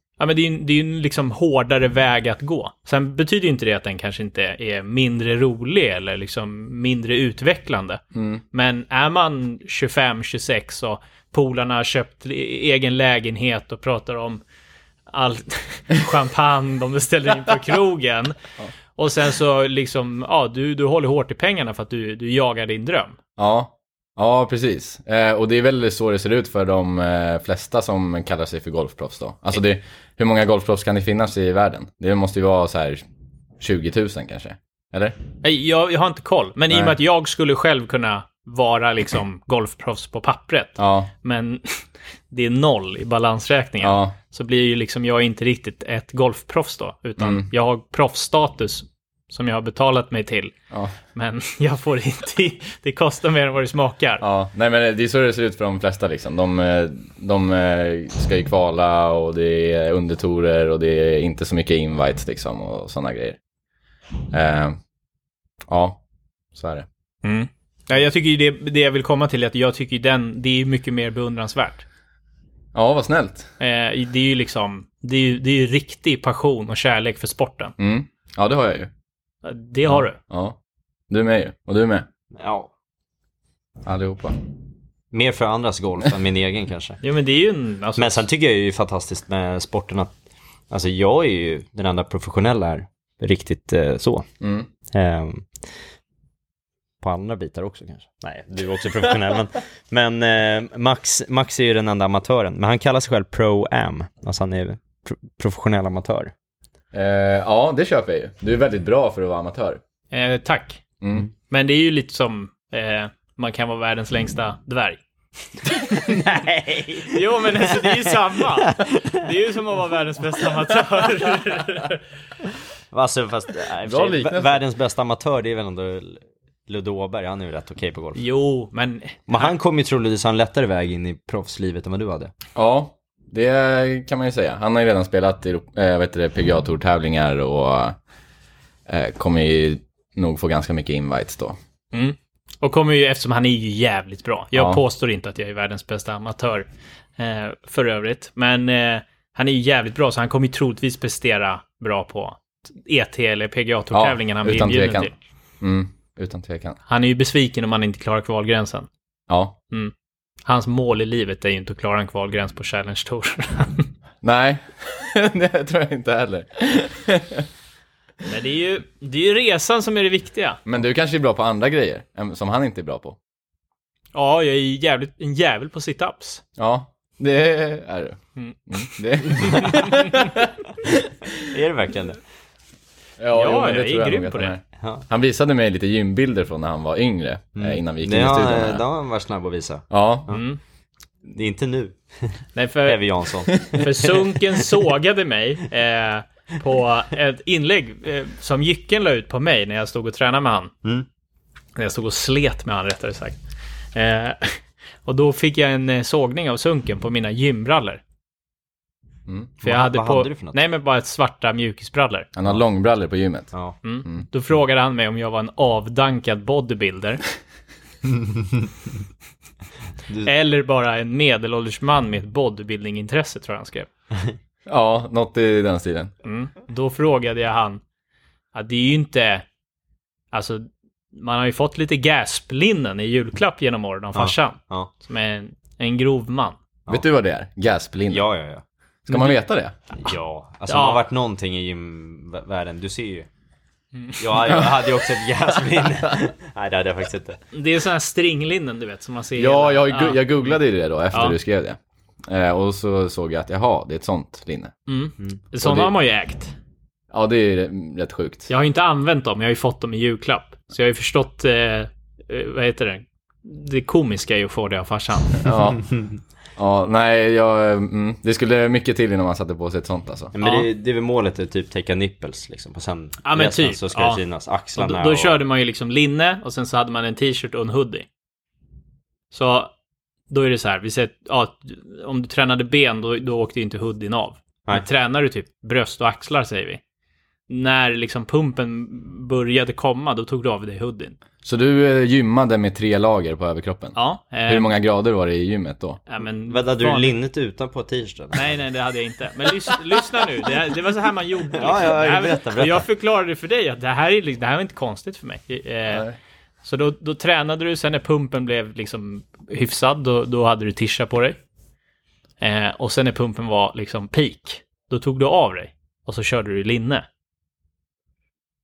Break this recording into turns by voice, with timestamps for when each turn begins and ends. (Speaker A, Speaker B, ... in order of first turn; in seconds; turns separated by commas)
Speaker A: 0.2-8.0, Speaker B: 8.1-8.4, Speaker A: 8.5-14.4, Speaker A: 15.1-18.4, Speaker A: 18.9-23.2, Speaker B: 23.4-33.0, Speaker B: 33.6-35.2, Speaker A: 35.4-50.5, Speaker B: 36.7-37.0, Speaker B: 40.8-41.1, Speaker B: 43.8-44.1, Speaker B: 47.2-47.5, Speaker A: 51.1-54.2, Speaker B: 54.2-63.4, Speaker B: 64.3-64.8, Speaker B: 65.7-66.0, Speaker B: 66.5-66.8, Speaker A: 67.2-71.8, Speaker B: 72.7-73.5, Speaker A: 73.6-77.7, Speaker B: 77.8-78.9, Speaker A: 79.4-80.2, Speaker B: 79.9-80.6, Speaker B: 81.1-82.1, Speaker C: 82.3-82.7, Speaker B: 83.8-84.3, Speaker C: 85.1-87.0, Speaker A: 87.0-88.2, Speaker C: 88.0-90.1, Speaker C: 90.7-94.3, Speaker B: 94.4-94.7, Speaker C: 94.9-95.7, Speaker C: 97.0-106.3, Speaker B: 106.9-109.8, Speaker A: 110.1-110.8, Speaker B: 111.0-111.3, Speaker A: 111.5-115.0, Speaker A: 115.8-116.3, Speaker C: 115.9-117.9, Speaker A: 117.0-122.0, Speaker C: 118.8-119.1, Speaker C: 122.9-128.2, Speaker B: 123.8-124.6, Speaker A: 128.2-129.5, Speaker C: 129.3-132.3, Speaker B: 132.5-138.0, Speaker B: 138.9-141.6, Speaker A: 141.9-146.7, Speaker B: 144.5-144.8, Speaker A: 147.2-155.1, Speaker B: 153.9-156.8, Speaker A: 156.9-158.9, Speaker B: 159.3-159.5, Speaker A: 160.4-163.9, Speaker B: 164.2-167.5, Speaker A: 168.2-170.6, Speaker B: 170.7-173.2, Speaker A: 174.1-176.4, Speaker B: 176.6-180.9, Speaker A: 178.3-180.3, Speaker C: 181.3-182.2, Speaker B: 183.2-188.8, Speaker A: 183.3-184.5, Speaker C: 187.6-190.4, Speaker B: 189.9-190.3, Speaker A: 190.3-190.6, Speaker C: 191.3-194.6, Speaker A: 192.5-193.0, Speaker A: 193.6-200.7, Speaker A: 201.8-203.4, Speaker A: 203.9-208.0, Speaker B: 209.3-209.5, Speaker C: 209.6-210.6, Speaker A: 209.6-212.3, Speaker B: 212.3-213.5, Speaker A: 213.8-217.2, Speaker C: 218.2-218.7, Speaker A: 220.2-223.9, Speaker B: 224.7-226.1, Speaker A: 226.2-227.8, Speaker A: 228.5-229.4, Speaker A: 230.3-236.6, Speaker C: 234.1-234.9, Speaker B: 236.9-238.2, Speaker C: 238.1-238.6, Speaker B: 239.1-239.7, Speaker A: 239.1-239.3, Speaker C: 240.0-243.3, Speaker A: 240.7-241.0, Speaker A: 243.9-244.4, Speaker C: 244.2-247.4, Speaker A: 247.5-250.5, Speaker B: 249.4-254.8, Speaker A: 254.9-256.5, Speaker B: 255.6-255.9, Speaker B: 257.1-258.5, Speaker A: 258.5-265.6, Speaker B: 265.4-265.8, Speaker B: 266.6-270.3, Speaker C: 270.3-275.4, Speaker A: 270.4-270.7, Speaker A: 273.2-274.2, Speaker A: 274.8-278.1, Speaker A: 279.3-279.7, Speaker A: 280.3-286.8, Speaker A: 287.5-291.2, Speaker B: 291.4-296.0, Speaker A: 293.9-294.7, Speaker A: 296.1-297.1, Speaker C: 296.5-298.6, Speaker A: 298.3-306.1, Speaker C: 301.5-302.9, Speaker B: 305.9-306.1, Speaker A: 306.6-311.4, Speaker A: 312.4-317.1